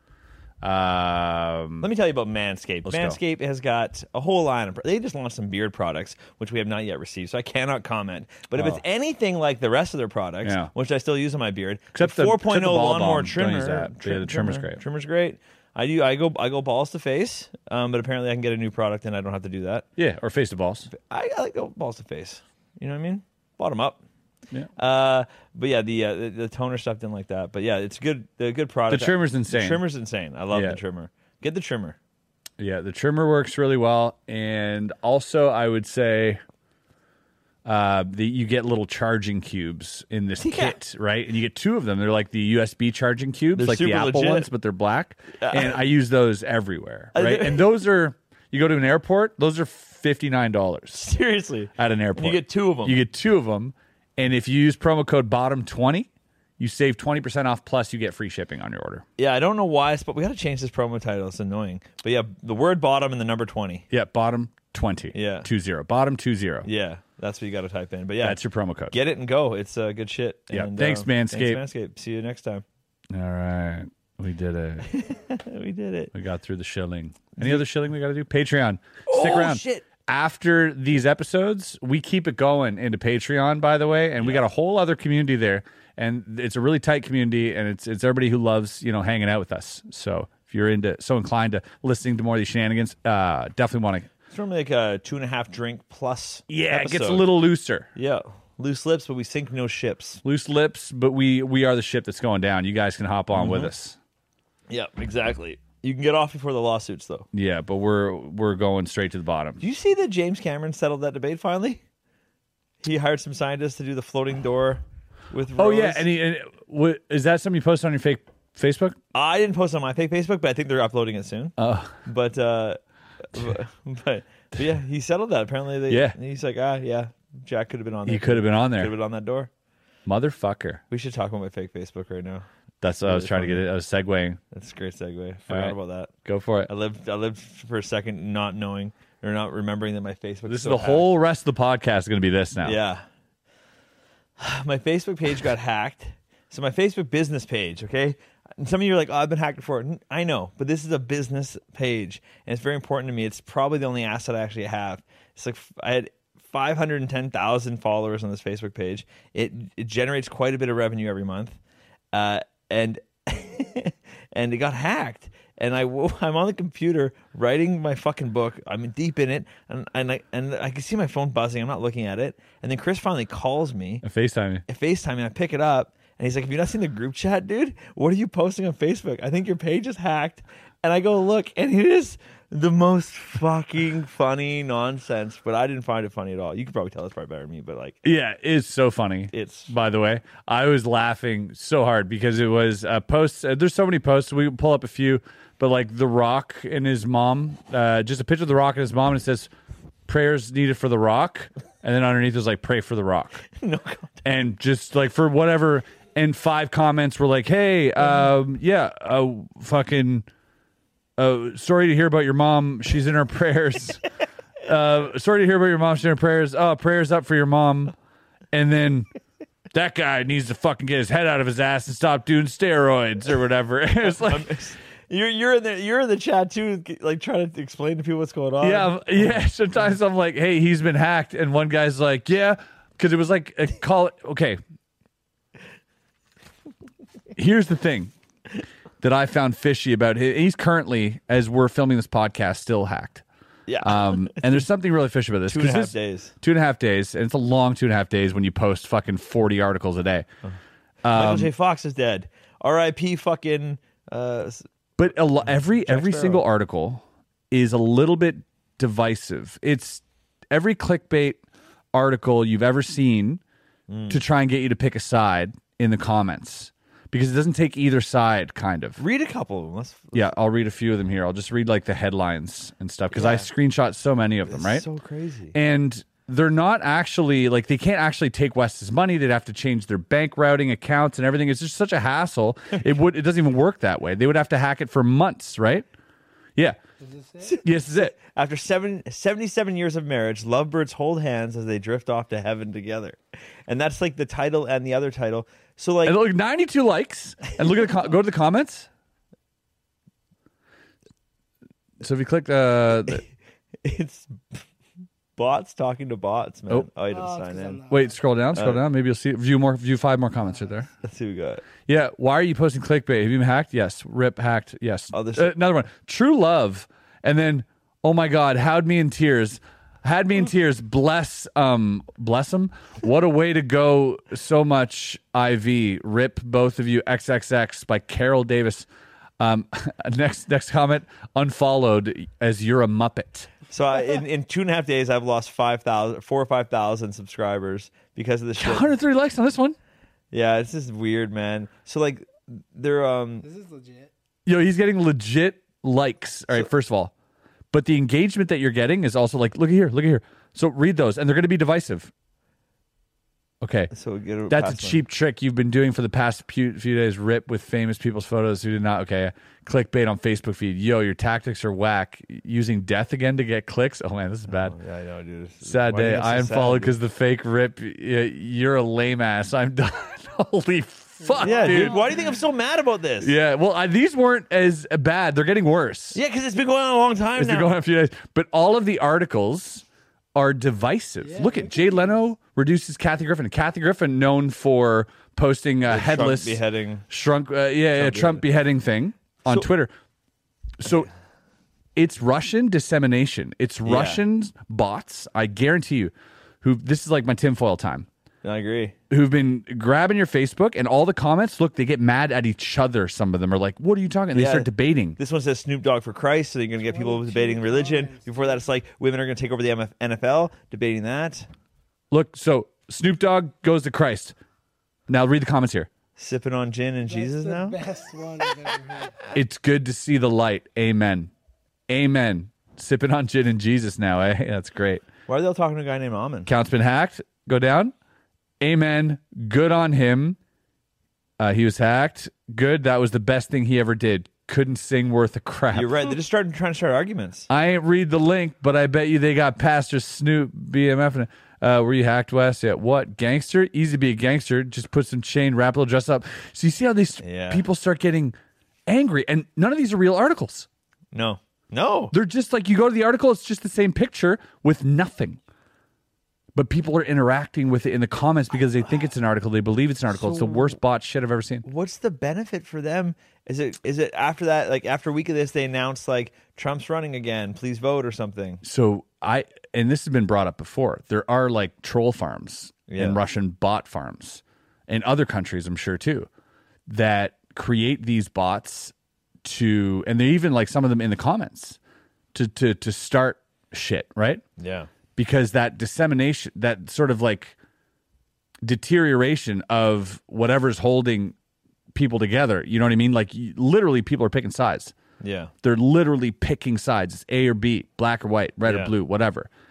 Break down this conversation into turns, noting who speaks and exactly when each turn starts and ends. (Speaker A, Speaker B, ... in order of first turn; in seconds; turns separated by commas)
Speaker A: 0.6-1.9, Speaker B: 1.8-19.9, Speaker A: 2.9-3.2, Speaker A: 8.5-8.8, Speaker A: 10.4-10.7, Speaker A: 11.9-14.8, Speaker A: 20.0-20.9, Speaker B: 20.9-24.0, Speaker B: 24.8-32.0, Speaker A: 28.9-29.8, Speaker A: 30.5-30.8, Speaker A: 32.6-36.4, Speaker A: 37.6-51.0, Speaker B: 40.4-40.8, Speaker B: 43.5-44.5, Speaker B: 45.4-45.8, Speaker B: 47.1-47.7, Speaker B: 50.9-53.0, Speaker A: 51.8-59.0, Speaker B: 59.2-63.9, Speaker A: 63.9-66.7, Speaker B: 65.1-65.5, Speaker B: 66.6-68.4, Speaker A: 68.2-69.0, Speaker B: 68.9-72.6, Speaker A: 70.5-71.6, Speaker A: 73.1-74.9, Speaker B: 74.9-76.1, Speaker A: 76.1-94.1, Speaker B: 77.4-77.6, Speaker B: 79.1-79.8, Speaker B: 94.3-97.3, Speaker A: 96.5-97.9, Speaker B: 98.0-100.2, Speaker A: 100.2-104.0, Speaker B: 103.3-103.7, Speaker B: 104.7-107.3, Speaker A: 107.3-109.6, Speaker B: 109.6-111.8, Speaker B: 112.8-116.1, Speaker A: 115.6-119.0, Speaker B: 119.1-122.8, Speaker A: 121.6-122.0, Speaker B: 123.3-129.5, Speaker A: 125.9-126.2, Speaker A: 128.1-128.9, Speaker A: 130.1-130.8, Speaker B: 130.9-132.5, Speaker A: 132.8-134.4, Speaker B: 133.0-133.7, Speaker B: 134.5-136.1, Speaker A: 135.5-136.7, Speaker B: 136.7-141.1, Speaker A: 140.5-142.8, Speaker B: 142.6-143.1, Speaker B: 144.4-161.6, Speaker B: 162.1-174.0, Speaker A: 174.0-174.6, Speaker B: 174.7-188.0, Speaker A: 188.0-199.5, Speaker B: 189.3-189.7, Speaker A: 200.1-203.4, Speaker B: 203.6-204.2, Speaker A: 204.2-210.3, Speaker A: 211.2-214.1, Speaker A: 214.6-217.9, Speaker A: 218.5-219.1, Speaker A: 219.7-224.5, Speaker B: 224.0-229.4, Speaker A: 228.6-234.6, Speaker A: 237.3-238.1, Speaker A: 239.0-243.2, Speaker B: 243.7-244.6, Speaker A: 243.8-250.3, Speaker B: 245.5-246.3, Speaker A: 251.0-251.5, Speaker B: 251.1-254.7, Speaker A: 255.0-261.4, Speaker B: 255.5-256.4, Speaker A: 261.9-263.4, Speaker B: 263.9-264.2, Speaker A: 264.1-269.0, Speaker B: 269.0-270.3, Speaker A: 270.1-274.9, Speaker B: 273.1-273.5, Speaker B: 274.5-275.6, Speaker A: 275.5-285.9, Speaker C: 287.0-287.6, Speaker B: 287.4-296.2, Speaker A: 287.6-288.1, Speaker A: 296.1-298.9, Speaker A: 302.0-303.2, Speaker B: 303.8-304.6, Speaker B: 305.4-307.9, Speaker C: 307.1-308.2, Speaker A: 307.9-310.9, Speaker B: 308.5-308.8, Speaker B: 311.0-311.6, Speaker A: 311.9-328.9, Speaker B: 315.1-315.5, Speaker A: 329.4-333.5, Speaker B: 333.7-338.9, Speaker A: 338.6-339.8, Speaker B: 340.3-343.5, Speaker C: 343.4-344.1, Speaker A: 344.5-347.1, Speaker A: 347.7-352.1, Speaker A: 353.6-353.9, Speaker B: 353.9-355.0, Speaker A: 354.5-364.8, Speaker B: 364.5-367.0, Speaker A: 365.6-372.1, Speaker C: 371.2-372.4, Speaker B: 371.4-373.3, Speaker A: 373.2-376.2, Speaker B: 376.1-377.7, Speaker A: 377.4-389.9, Speaker C: 381.2-382.2, Speaker B: 385.9-387.1, Speaker B: 388.0-388.4, Speaker A: 390.8-391.1, Speaker A: 392.0-398.1, Speaker B: 393.9-394.2, Speaker B: 398.4-399.0, Speaker A: 399.1-405.2, Speaker B: 404.3-411.5, Speaker C: 406.8-408.7, Speaker A: 412.1-414.4, Speaker A: 415.1-415.9, Speaker B: 416.2-417.8, Speaker C: 417.1-419.3, Speaker A: 419.3-421.3, Speaker A: 421.9-425.1, Speaker B: 425.3-426.5, Speaker A: 426.5-427.9, Speaker A: 428.6-430.4, Speaker A: 431.4-435.9, Speaker B: 435.7-437.5, Speaker A: 437.5-448.4, Speaker B: 447.2-447.6, Speaker A: 448.9-450.7, Speaker B: 451.1-452.1, Speaker A: 452.1-455.4, Speaker A: 456.5-461.6, Speaker B: 460.1-460.8, Speaker B: 461.6-468.6, Speaker A: 468.6-476.3, Speaker B: 472.9-473.2, Speaker A: 476.9-478.9, Speaker A: 479.4-481.8, Speaker A: 482.3-484.4, Speaker B: 484.6-484.9, Speaker A: 485.2-487.6, Speaker A: 488.6-491.4, Speaker A: 491.9-494.9, Speaker B: 495.2-495.5, Speaker A: 495.6-499.5, Speaker B: 498.6-498.9